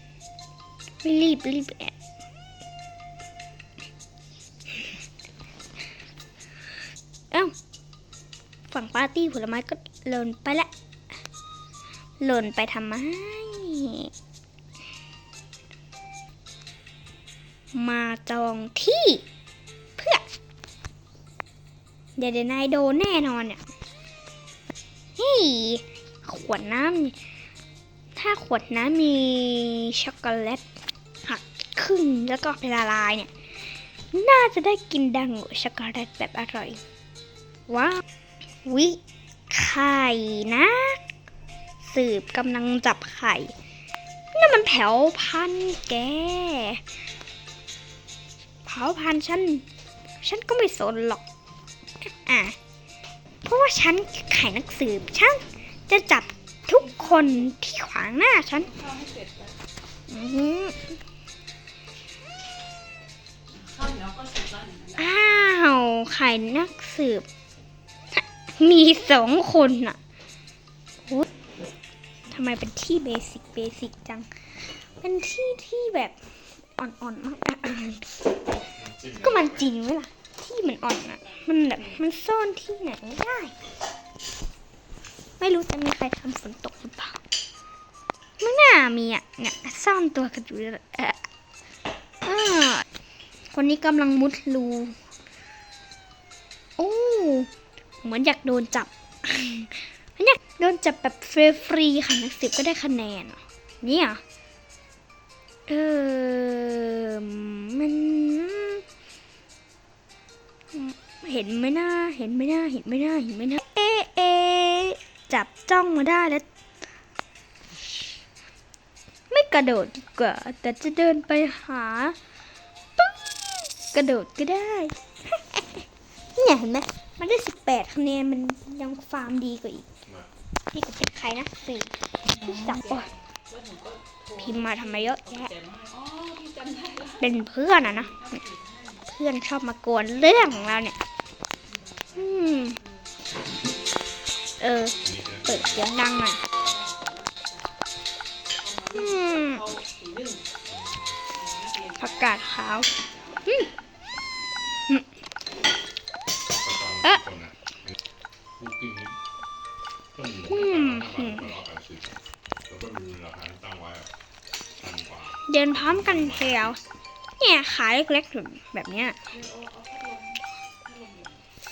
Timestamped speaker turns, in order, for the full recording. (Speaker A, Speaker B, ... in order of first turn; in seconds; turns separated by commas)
Speaker A: 1.0-1.9, Speaker A: 8.7-10.7, Speaker A: 12.2-14.1, Speaker A: 17.7-19.2, Speaker A: 20.0-20.2, Speaker A: 22.2-23.6, Speaker A: 25.2-27.1, Speaker A: 28.1-30.6, Speaker A: 31.2-33.3, Speaker A: 34.1-36.8, Speaker A: 37.7-38.0, Speaker A: 38.6-39.0, Speaker A: 39.5-41.0, Speaker A: 41.8-43.5, Speaker A: 44.3-46.8, Speaker A: 48.6-49.6, Speaker A: 50.2-51.2, Speaker A: 52.0-52.5, Speaker A: 53.4-58.7, Speaker B: 58.7-59.5, Speaker A: 60.1-60.9, Speaker B: 63.6-65.0, Speaker A: 65.0-67.2, Speaker A: 68.1-70.0, Speaker A: 72.3-74.3, Speaker A: 75.0-76.2, Speaker A: 76.8-78.1, Speaker C: 78.8-79.5, Speaker A: 79.2-83.5, Speaker A: 85.4-87.2, Speaker A: 88.4-91.2, Speaker A: 92.2-92.8, Speaker A: 93.5-94.9, Speaker A: 96.8-97.5, Speaker A: 98.0-104.2, Speaker A: 105.7-108.8, Speaker A: 110.7-116.4, Speaker A: 119.3-122.2, Speaker A: 123.9-125.8, Speaker A: 126.3-129.9, Speaker A: 130.7-133.1, Speaker B: 132.4-137.2, Speaker A: 134.4-135.5, Speaker A: 137.2-138.1, Speaker B: 137.8-139.1, Speaker A: 139.1-140.9, Speaker B: 141.6-143.0, Speaker A: 142.2-142.8, Speaker B: 143.6-144.1, Speaker A: 144.6-146.4, Speaker B: 144.8-145.6, Speaker C: 145.0-145.9, Speaker B: 146.6-147.7, Speaker B: 148.6-150.5, Speaker A: 148.9-149.7, Speaker C: 150.7-151.2, Speaker B: 151.3-153.6, Speaker A: 152.0-152.9, Speaker C: 156.6-157.6, Speaker C: 158.5-159.2, Speaker C: 160.1-162.1, Speaker A: 160.5-161.5, Speaker C: 162.7-164.1, Speaker C: 164.8-166.8, Speaker A: 165.5-166.8, Speaker A: 167.4-169.2, Speaker B: 169.3-171.4